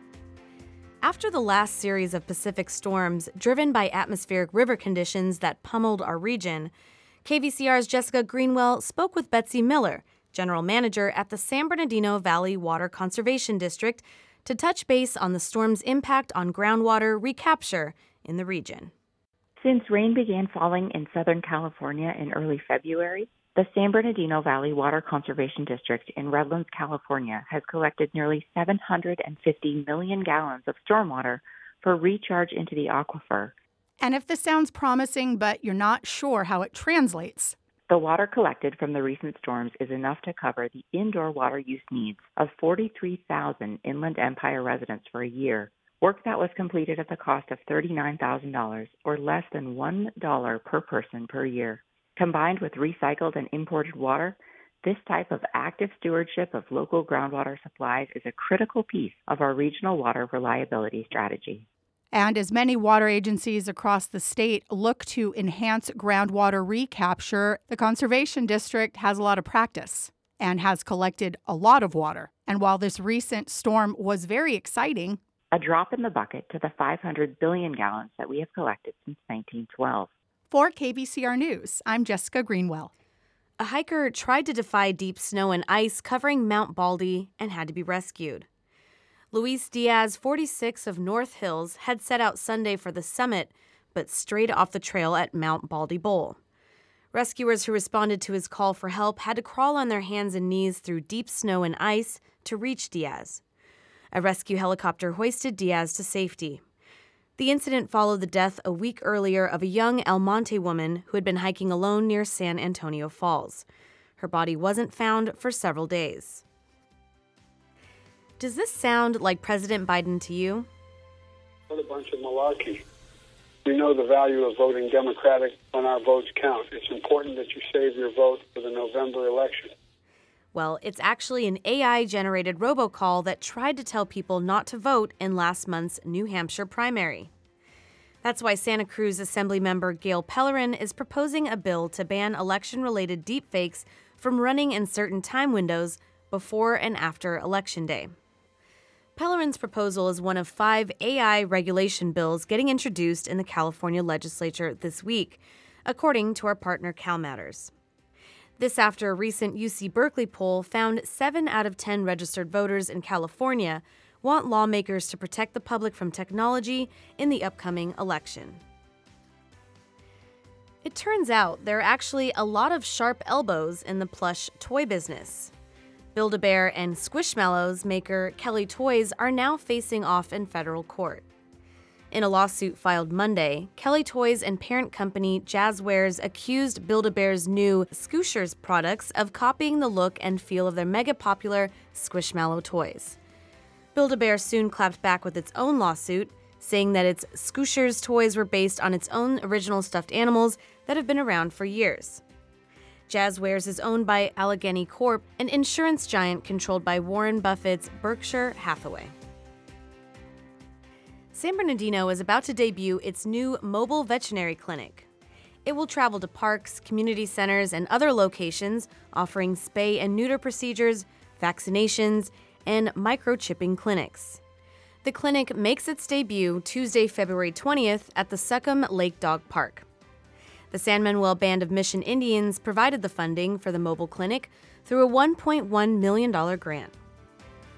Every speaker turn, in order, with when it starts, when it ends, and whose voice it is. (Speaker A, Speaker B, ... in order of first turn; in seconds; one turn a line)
Speaker A: 1.0-6.7
Speaker A: 7.2-18.9
Speaker B: 19.6-33.5
Speaker C: 34.0-37.5
Speaker B: 37.9-61.7
Speaker C: 62.1-75.2
Speaker B: 75.5-80.1
Speaker C: 80.5-82.9
Speaker A: 83.6-88.5
Speaker A: 89.3-96.4
Speaker A: 97.1-103.4
Speaker A: 104.1-106.6
Speaker A: 107.4-113.7
Speaker A: 114.2-116.4
Speaker A: 118.4-120.7
Speaker D: 121.7-122.8
Speaker D: 123.7-129.7
Speaker A: 130.5-137.3
Speaker A: 138.2-148.1
Speaker A: 149.2-157.7
Speaker A: 158.6-168.6
Speaker A: 170.8-175.5
Speaker A: 176.2-181.2
Speaker A: 182.1-193.2
Speaker A: 193.9-202.2
Speaker A: 203.1-209.1
Speaker A: 211.3-215.1
Speaker A: 215.7-224.4
Speaker A: 225.0-229.9
Speaker A: 230.7-236.9